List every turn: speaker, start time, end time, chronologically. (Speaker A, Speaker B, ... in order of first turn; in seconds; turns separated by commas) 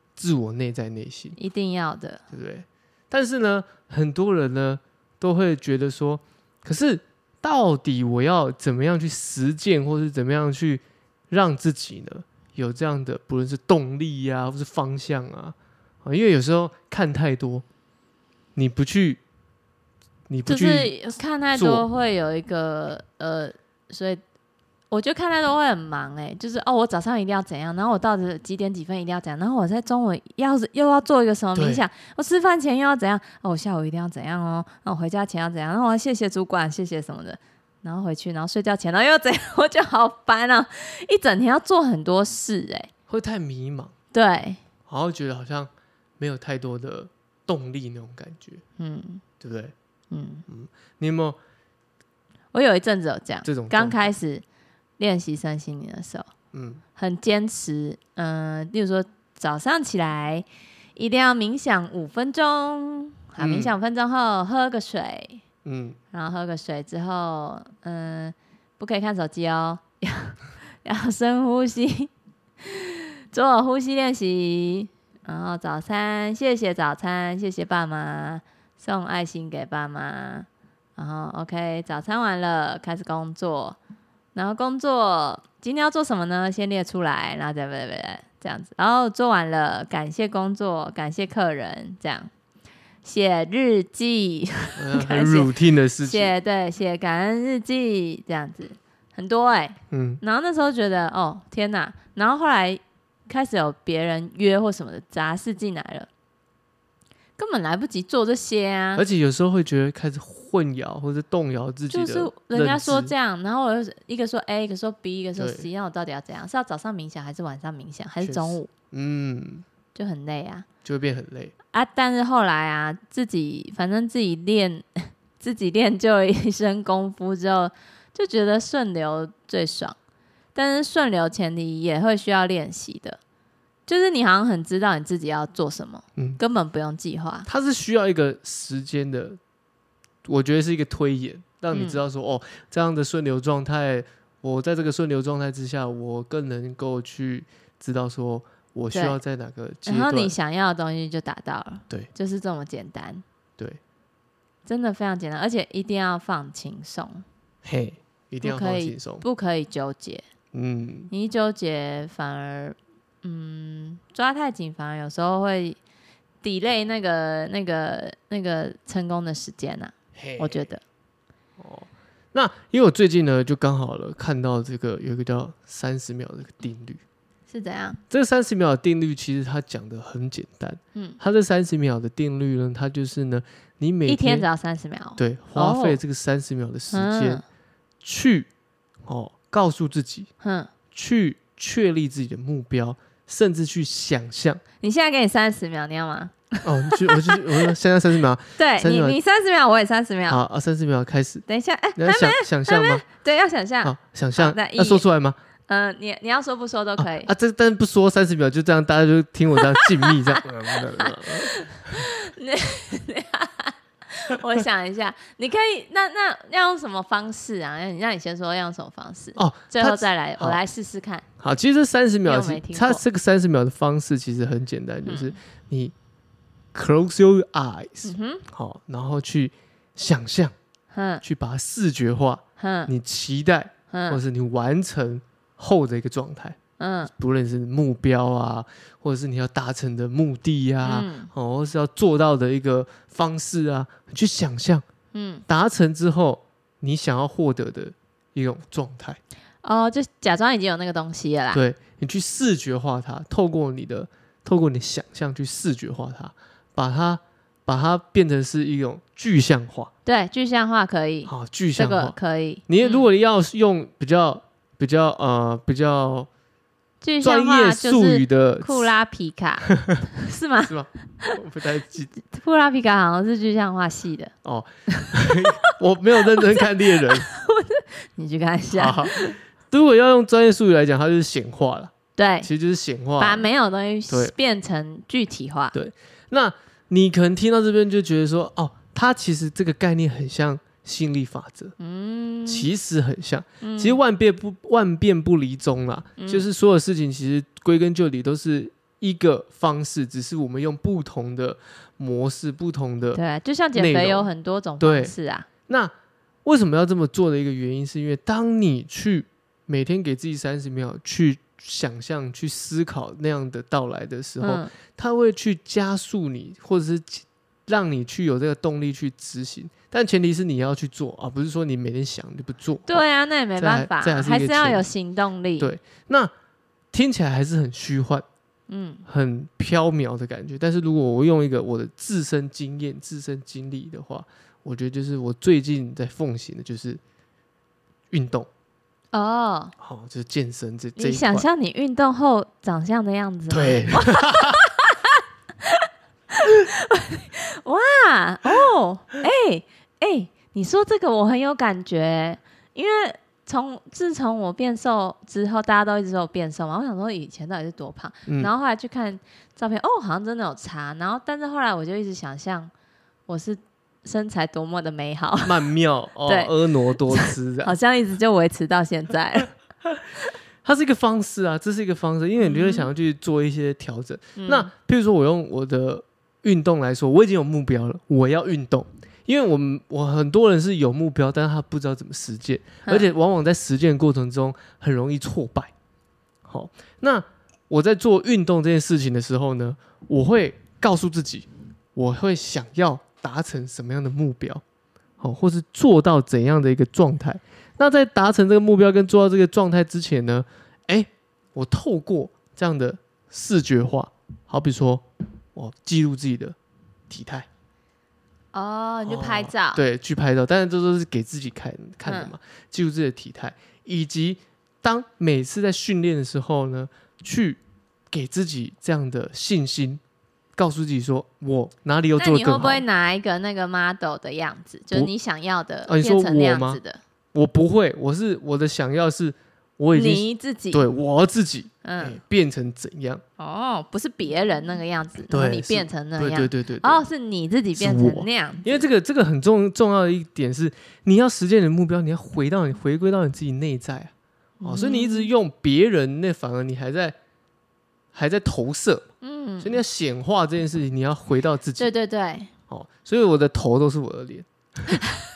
Speaker A: 0.2-1.4, Speaker B: 1.4-2.2, Speaker A: 2.3-17.6, Speaker A: 18.6-19.2, Speaker A: 20.3-20.9, Speaker B: 20.5-24.2, Speaker A: 21.6-21.9, Speaker B: 24.9-42.9, Speaker A: 31.6-31.8, Speaker A: 43.1-43.9, Speaker B: 44.1-44.6, Speaker A: 44.9-48.6, Speaker B: 48.8-49.2, Speaker A: 49.4-49.7, Speaker B: 50.1-50.5, Speaker A: 50.5-51.4, Speaker B: 52.5-54.4, Speaker A: 53.4-54.1, Speaker B: 55.0-56.3, Speaker A: 56.5-56.8, Speaker B: 57.0-65.4, Speaker A: 63.4-63.8, Speaker A: 65.7-66.0, Speaker B: 66.1-72.1, Speaker B: 72.6-83.8, Speaker B: 84.3-92.3, Speaker B: 93.0-106.1, Speaker A: 94.8-96.3, Speaker A: 99.9-100.2, Speaker B: 107.4-109.0, Speaker A: 109.0-113.1, Speaker B: 111.9-118.7, Speaker A: 115.4-115.7, Speaker A: 118.2-119.7, Speaker B: 120.0-120.7, Speaker A: 120.8-121.5, Speaker B: 121.7-130.0, Speaker B: 130.6-133.2, Speaker B: 133.9-137.5, Speaker A: 137.5-139.4, Speaker A: 140.3-150.3, Speaker B: 141.7-142.0, Speaker B: 148.9-149.2, Speaker B: 149.8-153.2, Speaker B: 154.7-157.2, Speaker A: 157.6-159.2, Speaker B: 158.4-160.2, Speaker A: 160.5-161.1, Speaker B: 161.1-165.8, Speaker B: 166.4-170.8, Speaker A: 170.2-170.7, Speaker A: 171.6-177.0, Speaker B: 177.5-178.0, Speaker A: 178.1-184.4, Speaker B: 184.1-186.0, Speaker A: 185.2-187.4, Speaker B: 186.9-187.4, Speaker A: 188.0-188.5, Speaker A: 189.1-190.3, Speaker B: 190.4-190.7, Speaker A: 190.9-194.6, Speaker B: 194.8-197.4, Speaker A: 196.6-199.2, Speaker B: 198.6-200.4, Speaker A: 200.3-201.4, Speaker B: 201.5-205.0, Speaker A: 202.0-203.0, Speaker A: 203.8-205.4, Speaker B: 205.7-207.3, Speaker A: 207.0-212.0, Speaker B: 209.6-221.2, Speaker A: 219.4-220.6, Speaker A: 221.4-225.9, Speaker B: 222.2-223.0, Speaker B: 225.1-225.4, Speaker A: 226.7-230.5, Speaker B: 228.1-228.4, Speaker B: 230.9-231.2, Speaker A: 231.2-244.8, Speaker B: 232.6-232.9, Speaker B: 233.9-234.2, Speaker B: 236.8-237.1, Speaker B: 240.8-241.3, Speaker B: 245.1-245.4, Speaker A: 245.5-249.2, Speaker B: 249.6-251.6, Speaker A: 251.5-259.9, Speaker B: 260.1-263.1, Speaker A: 261.3-262.2, Speaker A: 262.7-266.3, Speaker B: 267.0-271.3, Speaker A: 267.2-268.9, Speaker A: 269.7-270.0, Speaker A: 270.6-272.1, Speaker B: 272.2-274.3, Speaker A: 274.4-277.3, Speaker B: 274.9-275.5, Speaker B: 276.4-279.4, Speaker A: 278.8-283.5, Speaker B: 282.2-282.5, Speaker B: 283.2-285.8, Speaker A: 285.7-291.8, Speaker B: 291.8-292.7, Speaker A: 292.5-303.2, Speaker B: 293.6-294.0, Speaker B: 296.2-296.5, Speaker B: 303.1-305.5, Speaker A: 303.8-305.1, Speaker A: 305.7-305.9, Speaker A: 306.4-323.0, Speaker B: 314.4-314.7, Speaker B: 322.9-325.7, Speaker A: 323.6-324.9, Speaker A: 325.6-326.3, Speaker A: 326.9-328.2, Speaker B: 328.7-329.0, Speaker A: 329.1-337.0, Speaker A: 338.1-338.5, Speaker B: 339.1-339.7, Speaker A: 339.8-341.5, Speaker B: 341.0-362.7, Speaker A: 343.5-344.6, Speaker B: 363.3-365.6, Speaker A: 365.4-367.8, Speaker B: 366.3-369.5, Speaker A: 370.6-385.7, Speaker B: 372.4-372.9, Speaker B: 374.4-374.7, Speaker A: 386.5-394.6, Speaker A: 395.2-406.6, Speaker A: 407.1-407.5, Speaker B: 408.5-409.8, Speaker A: 409.1-417.6, Speaker B: 412.1-412.3, Speaker A: 418.1-420.0, Speaker A: 420.6-422.9, Speaker B: 422.2-427.0, Speaker A: 425.9-426.8, Speaker A: 427.3-433.2, Speaker B: 429.9-430.8, Speaker B: 431.8-432.2, Speaker B: 433.4-438.8, Speaker A: 435.3-437.0, Speaker A: 437.8-444.1, Speaker B: 444.6-445.3, Speaker A: 444.6-447.1, Speaker A: 448.1-449.1, Speaker B: 449.2-449.8, Speaker A: 449.6-451.9, Speaker B: 451.8-452.5, Speaker A: 452.7-455.0